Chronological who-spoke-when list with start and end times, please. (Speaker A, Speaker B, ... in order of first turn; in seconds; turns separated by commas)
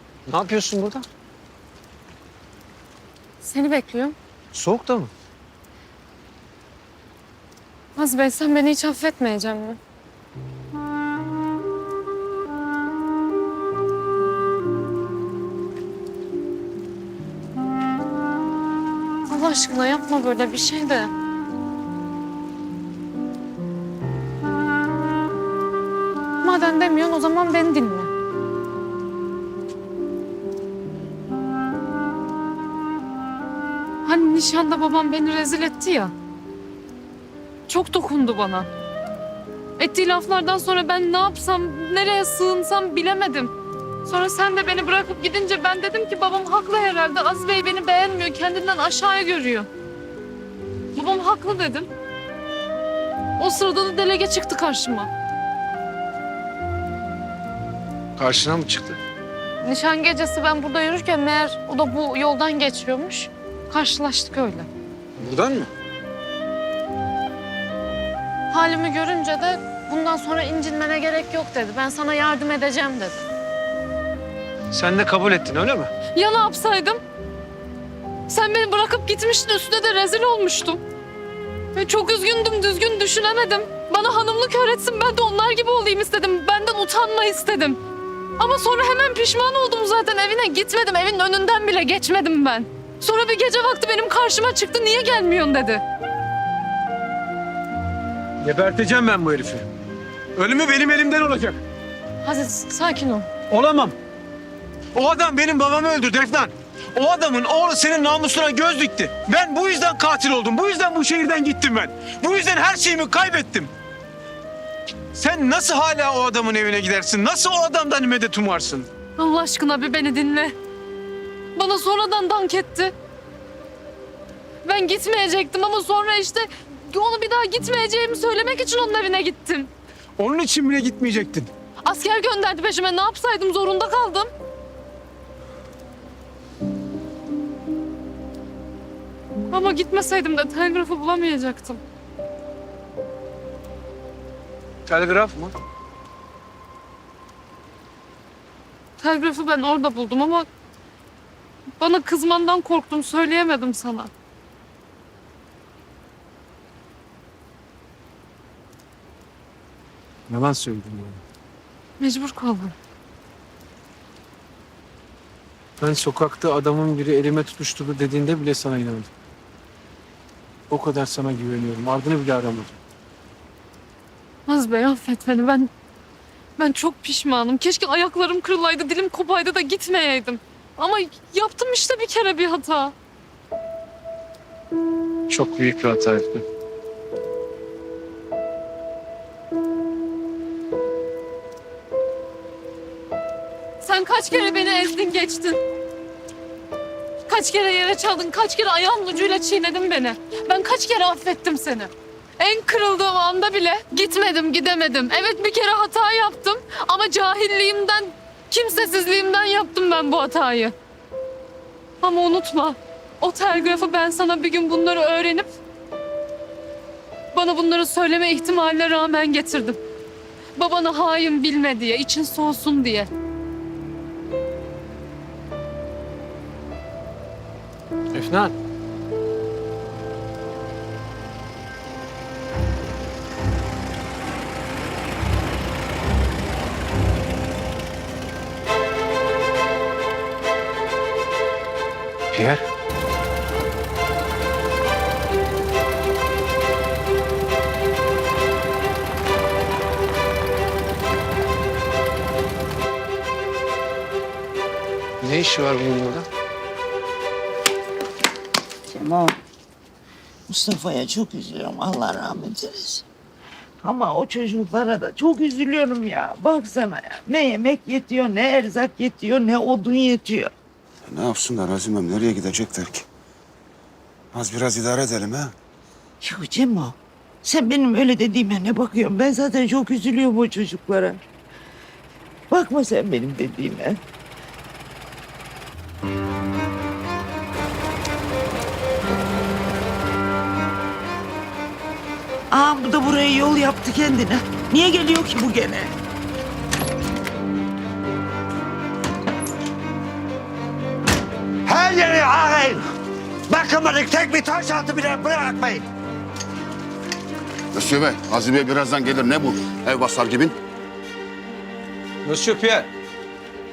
Speaker A: 0.3-1.1, Speaker B: 3.4-4.2, Speaker A: 4.5-5.1, Speaker B: 8.0-9.8, Speaker B: 19.3-21.1, Speaker B: 26.4-28.1, Speaker B: 34.0-36.1, Speaker B: 37.7-38.7, Speaker B: 39.8-43.5, Speaker B: 44.0-49.7, Speaker B: 50.9-51.9, Speaker B: 53.4-55.1, Speaker A: 58.2-59.0, Speaker B: 59.6-64.7, Speaker A: 65.2-65.7, Speaker B: 68.5-73.2, Speaker A: 74.7-75.9, Speaker B: 76.1-77.0, Speaker B: 78.3-80.8, Speaker B: 81.7-87.8, Speaker B: 88.4-95.8, Speaker A: 98.4-99.7, Speaker A: 100.3-101.6, Speaker B: 102.2-103.3, Speaker A: 103.5-103.9, Speaker A: 104.9-113.7, Speaker A: 115.1-118.9, Speaker B: 119.2-120.5, Speaker B: 121.5-122.9, Speaker B: 124.6-129.7, Speaker A: 130.2-131.5, Speaker B: 131.8-134.3, Speaker B: 139.5-141.8, Speaker A: 144.9-145.5, Speaker B: 149.0-150.5, Speaker B: 151.8-154.1, Speaker A: 160.3-161.2, Speaker B: 162.0-162.7, Speaker A: 165.8-169.1, Speaker A: 170.7-172.7, Speaker B: 174.5-175.7, Speaker B: 176.6-182.9, Speaker A: 185.3-186.4, Speaker B: 193.8-195.6, Speaker B: 197.3-210.7, Speaker B: 212.0-215.5, Speaker B: 217.3-219.8, Speaker B: 220.6-223.1, Speaker A: 228.1-228.5, Speaker A: 242.3-242.6, Speaker A: 255.2-256.2, Speaker C: 258.9-259.4, Speaker C: 260.5-263.0, Speaker C: 263.8-270.5, Speaker D: 271.1-273.1, Speaker D: 274.3-275.5, Speaker C: 276.2-281.2, Speaker C: 282.5-284.0, Speaker C: 292.5-295.9, Speaker E: 301.6-302.8, Speaker E: 303.5-305.9, Speaker D: 307.7-310.6, Speaker A: 312.2-312.9